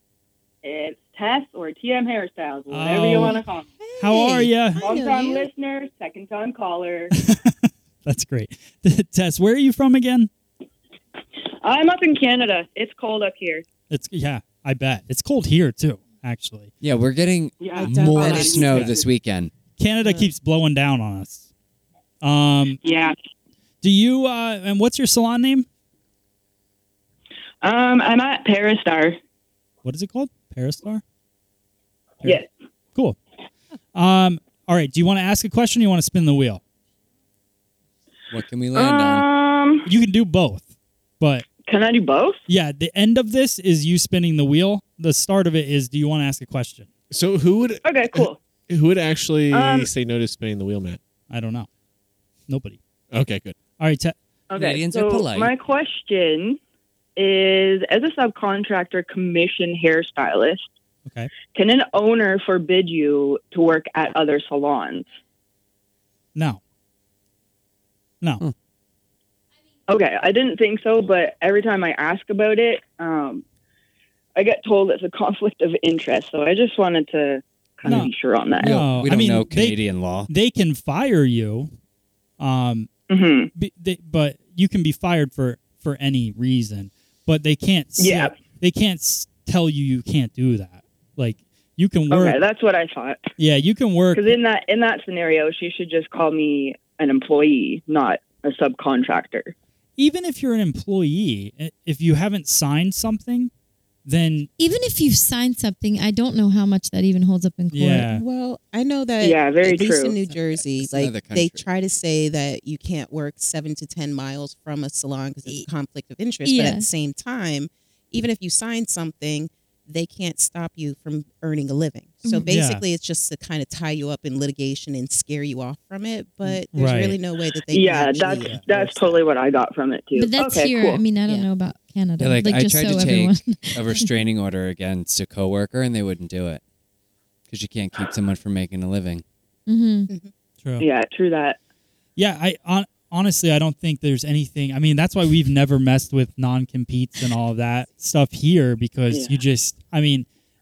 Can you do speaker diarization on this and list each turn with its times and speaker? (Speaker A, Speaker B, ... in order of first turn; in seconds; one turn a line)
Speaker A: 0.6-3.6
Speaker B: 2.7-3.4
Speaker C: 3.1-5.5
Speaker B: 4.0-4.8
Speaker A: 4.8-7.1
Speaker B: 7.2-10.3
Speaker A: 11.6-13.7
Speaker B: 13.9-16.7
Speaker D: 16.8-19.5
Speaker A: 17.6-18.8
Speaker C: 17.7-19.0
Speaker B: 18.7-18.9
Speaker B: 19.8-21.4
Speaker B: 22.2-22.8
Speaker A: 22.8-23.1
Speaker B: 23.8-25.7
Speaker A: 27.6-29.2
Speaker B: 29.8-31.0
Speaker B: 33.9-36.6
Speaker D: 38.3-39.2
Speaker A: 38.7-39.9
Speaker B: 39.9-40.7
Speaker B: 41.2-41.5
Speaker A: 41.6-42.4
Speaker B: 42.5-46.9
Speaker E: 47.1-51.0
Speaker A: 47.8-48.4
Speaker A: 49.5-49.9
Speaker B: 51.3-51.7
Speaker B: 52.5-52.8
Speaker E: 53.1-53.6
Speaker B: 53.8-54.1
Speaker A: 54.5-56.6
Speaker D: 54.5-55.5
Speaker A: 57.1-60.7
Speaker A: 61.5-65.1
Speaker B: 66.3-66.6
Speaker A: 69.9-73.4
Speaker A: 74.3-78.8
Speaker D: 77.8-80.3
Speaker B: 77.8-81.7
Speaker B: 82.4-82.9
Speaker A: 83.1-83.5
Speaker B: 83.5-92.4
Speaker A: 88.0-88.3
Speaker A: 92.1-93.3
Speaker B: 93.4-94.4
Speaker A: 94.1-99.5
Speaker B: 100.0-103.5
Speaker B: 104.0-104.5
Speaker F: 104.6-108.1
Speaker B: 107.7-108.2
Speaker C: 108.0-129.2
Speaker A: 109.2-110.2
Speaker D: 110.3-111.7
Speaker F: 116.4-116.9
Speaker B: 122.4-122.8
Speaker B: 126.5-127.2
Speaker A: 127.7-131.1
Speaker F: 130.1-134.1
Speaker C: 131.2-131.5
Speaker D: 132.2-136.6
Speaker D: 137.5-139.2
Speaker F: 139.7-140.1
Speaker A: 140.8-141.6
Speaker B: 142.2-150.2
Speaker A: 149.1-149.4